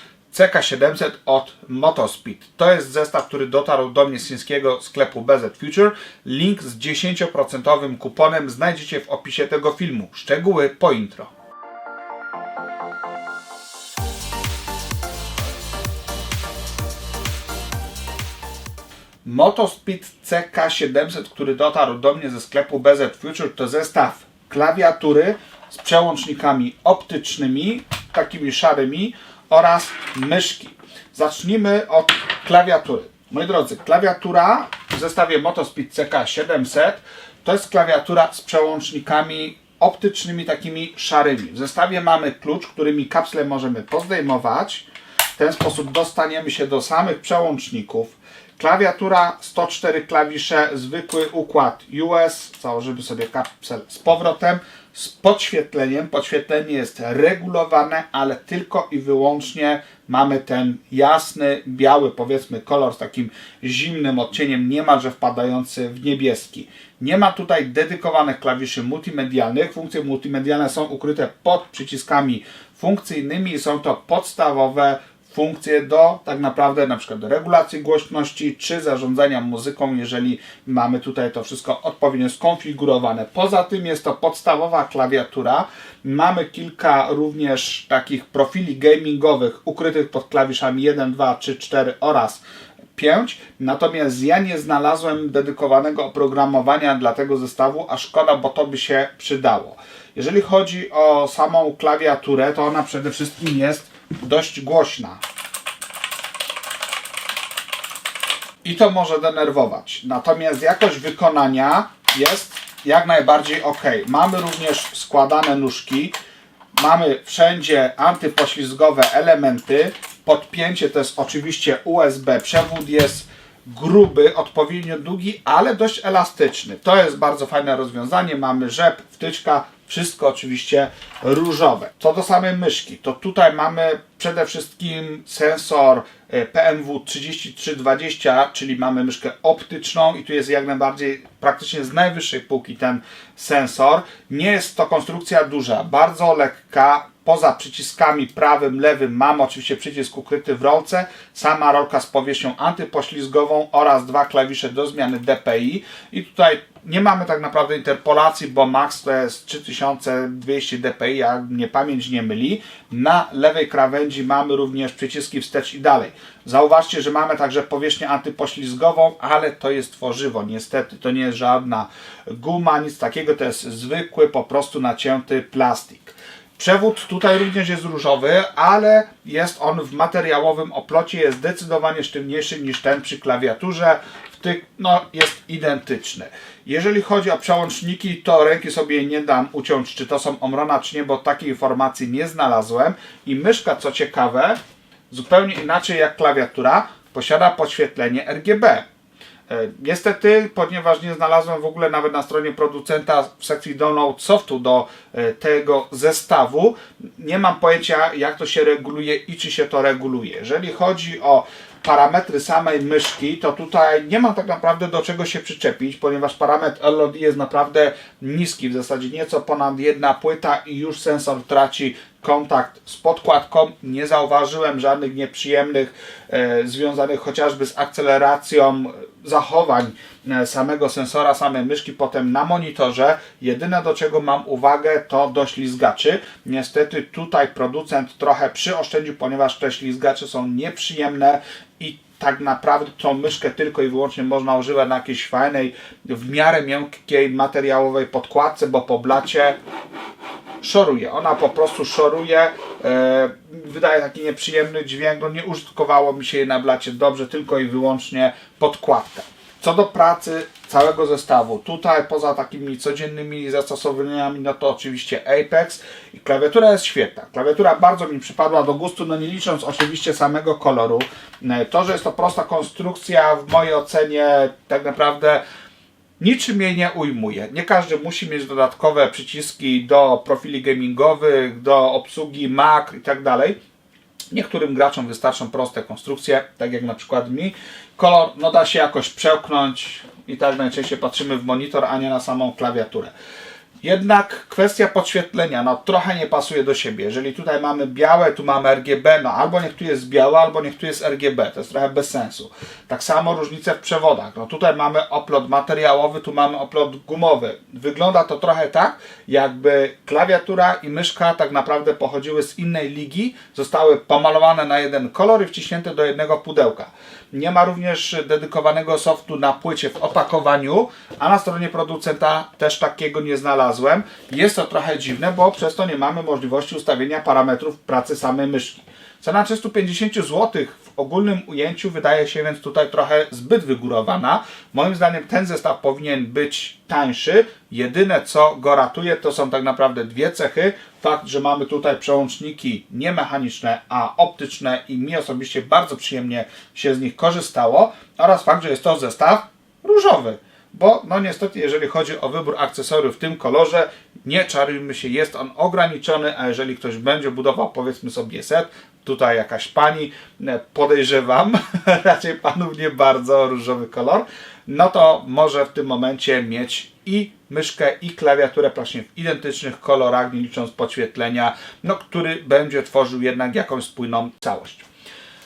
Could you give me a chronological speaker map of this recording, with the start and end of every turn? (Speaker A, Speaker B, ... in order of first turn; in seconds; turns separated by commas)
Speaker A: 0.3-11.3, Speaker A: 19.2-92.4, Speaker A: 93.0-105.2, Speaker A: 108.6-116.2, Speaker A: 116.8-194.6, Speaker A: 195.1-198.9, Speaker A: 199.5-249.6, Speaker A: 250.6-275.4, Speaker A: 276.2-283.6, Speaker A: 284.3-293.1, Speaker A: 293.8-374.9